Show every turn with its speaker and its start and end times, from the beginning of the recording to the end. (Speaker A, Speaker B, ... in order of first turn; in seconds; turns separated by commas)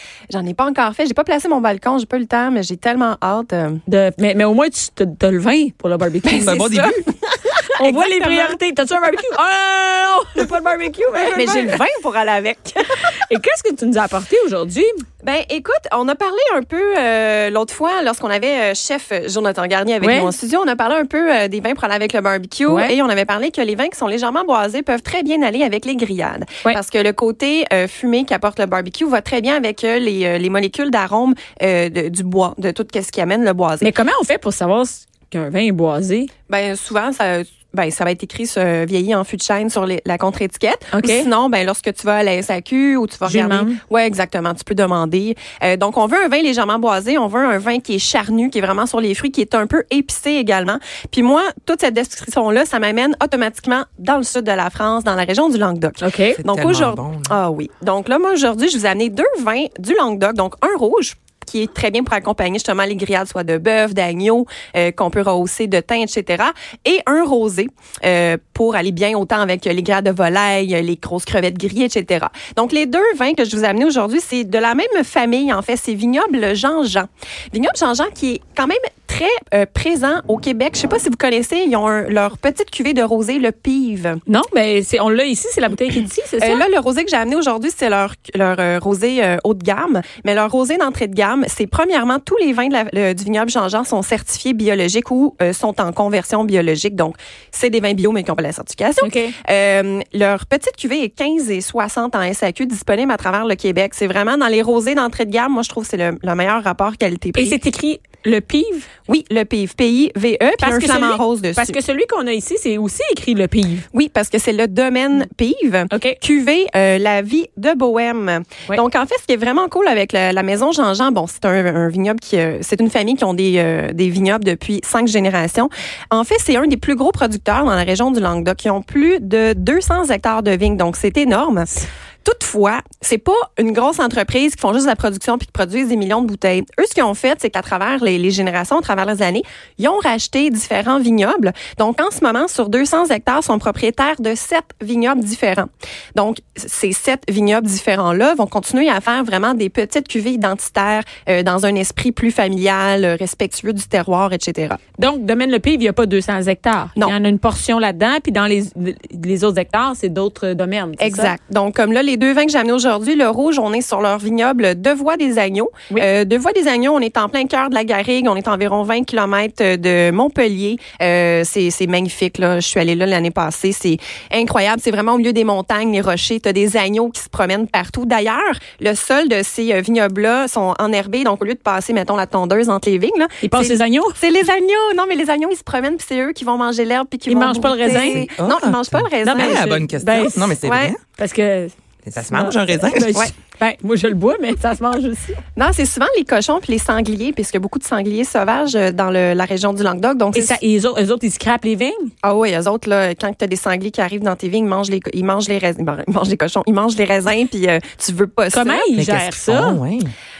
Speaker A: 0.3-3.8, Speaker B: 3.9-6.6, Speaker A: 6.2-8.6, Speaker C: 6.4-7.0, Speaker B: 7.8-11.8, Speaker A: 11.3-12.8, Speaker B: 13.1-15.0, Speaker A: 15.2-33.9, Speaker B: 20.0-20.3, Speaker B: 22.7-22.9, Speaker B: 33.8-36.3, Speaker A: 36.5-84.2, Speaker B: 40.9-41.3, Speaker B: 43.2-43.8, Speaker B: 56.0-56.4, Speaker C: 56.4-57.3, Speaker B: 84.3-86.6, Speaker A: 86.4-107.6, Speaker B: 99.0-99.3, Speaker B: 107.3-108.9, Speaker A: 109.1-111.8, Speaker B: 110.6-113.8, Speaker A: 113.9-131.7, Speaker B: 115.9-116.2, Speaker A: 132.2-154.8, Speaker B: 155.0-161.3, Speaker A: 161.0-189.8, Speaker B: 183.4-184.2, Speaker B: 187.3-188.3, Speaker C: 188.4-191.0, Speaker B: 189.2-190.6, Speaker A: 190.6-190.9, Speaker B: 191.2-191.7, Speaker C: 192.0-193.2, Speaker B: 192.2-195.4, Speaker A: 195.6-200.6, Speaker B: 200.3-202.1, Speaker A: 202.2-208.9, Speaker B: 208.5-209.8, Speaker C: 208.9-210.1